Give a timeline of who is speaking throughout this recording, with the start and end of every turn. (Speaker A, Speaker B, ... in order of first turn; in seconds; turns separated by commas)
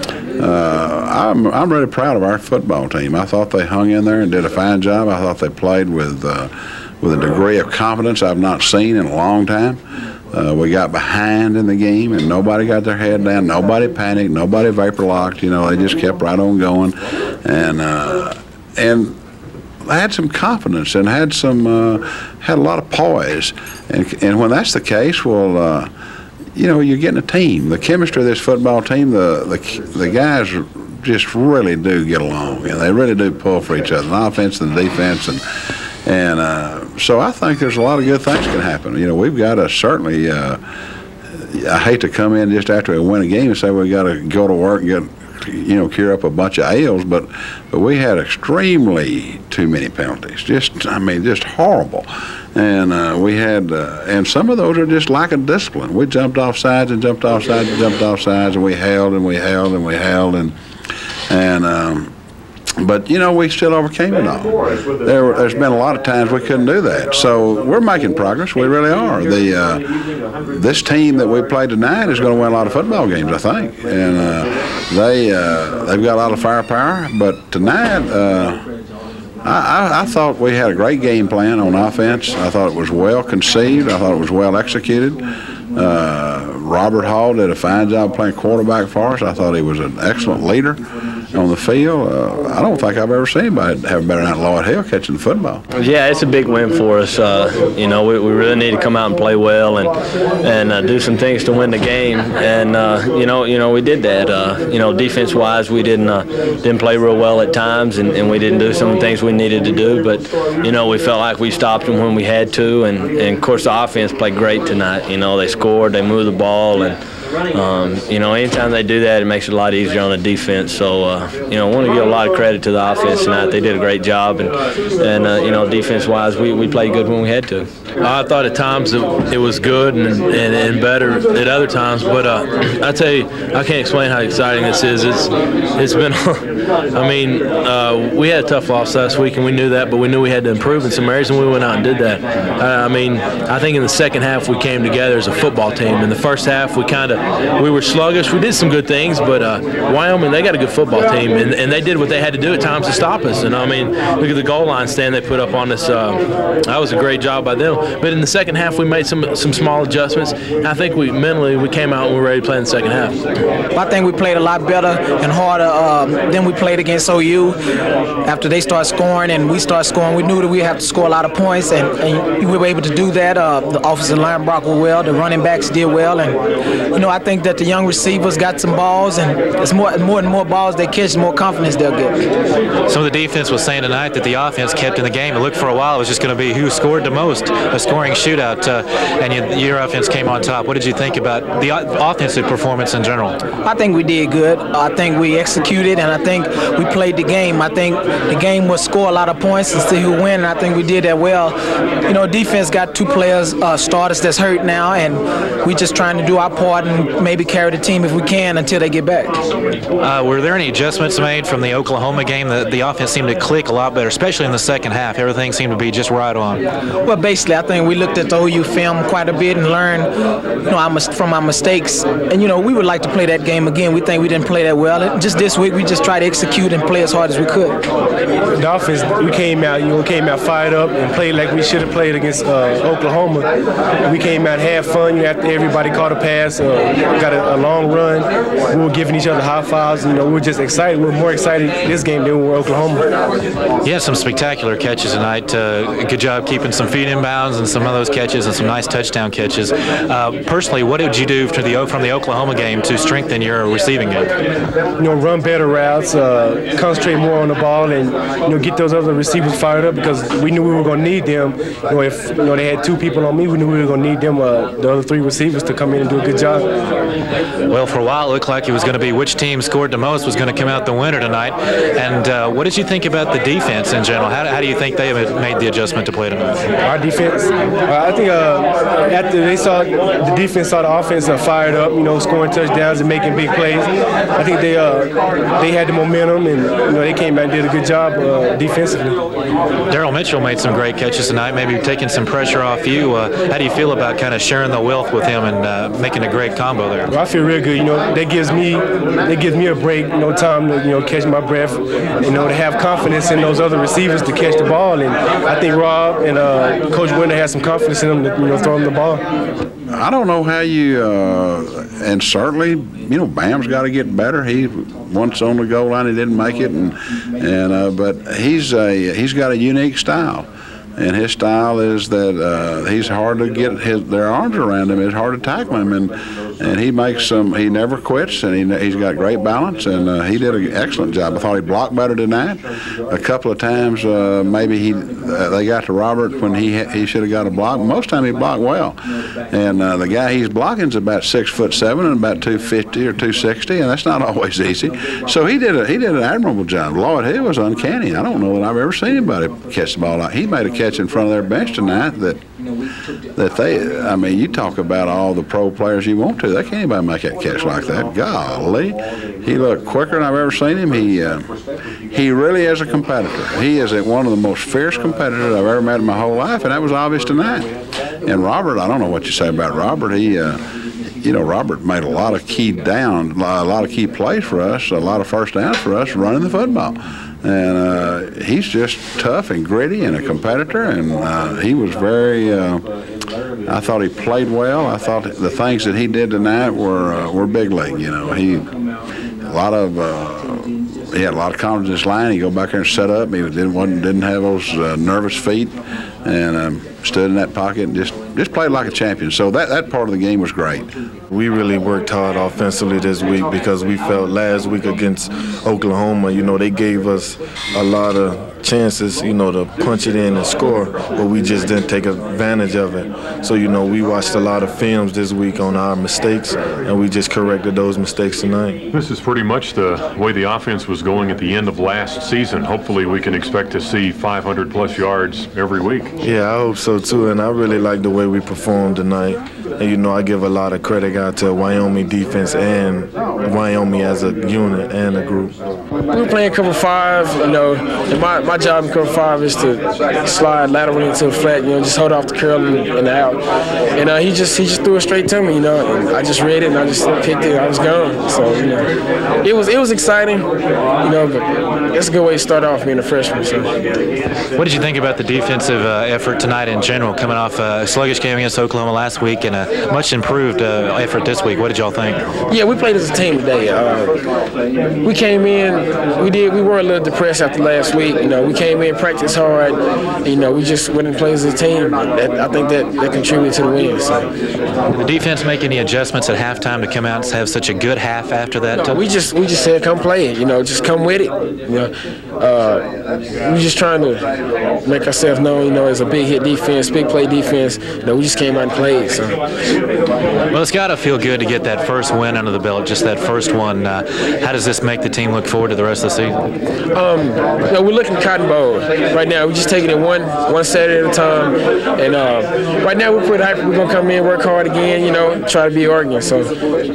Speaker A: 0.3-9.8, Speaker A: 10.3-19.1, Speaker A: 19.9-25.9, Speaker A: 26.6-35.4, Speaker A: 36.0-40.6, Speaker A: 41.3-60.6, Speaker A: 61.3-62.1, Speaker A: 62.8-69.9, Speaker A: 70.5-78.6, Speaker A: 79.4-85.2, Speaker A: 85.7-95.6, Speaker B: 95.8-117.0, Speaker B: 117.5-127.7, Speaker C: 128.0-163.2, Speaker D: 163.8-167.6, Speaker D: 168.2-176.4, Speaker D: 176.9-182.2, Speaker E: 182.9-193.4, Speaker D: 193.6-209.4, Speaker E: 210.0-216.6, Speaker D: 217.1-220.1, Speaker D: 220.6-227.8, Speaker F: 228.6-233.4, Speaker F: 234.1-243.0, Speaker E: 243.8-254.3, Speaker F: 255.0-266.7, Speaker E: 267.7-276.7, Speaker F: 276.8-289.2, Speaker E: 289.9-297.1, Speaker F: 297.1-309.2, Speaker A: 309.9-352.4, Speaker A: 353.4-361.5, Speaker A: 362.1-367.7, Speaker A: 368.2-370.6, Speaker A: 371.2-382.9, Speaker A: 383.6-388.7, Speaker A: 389.4-400.9, Speaker G: 401.3-418.8, Speaker H: 418.9-426.1, Speaker G: 426.2-435.6, Speaker I: 436.1-443.4, Speaker I: 443.9-448.9, Speaker I: 449.4-450.5, Speaker I: 451.0-453.7, Speaker E: 454.5-462.2, Speaker I: 462.5-464.2, Speaker I: 465.0-474.2, Speaker E: 475.0-479.0, Speaker I: 478.9-482.9, Speaker I: 483.4-484.2, Speaker I: 484.8-489.4, Speaker E: 490.5-496.4, Speaker I: 496.9-506.5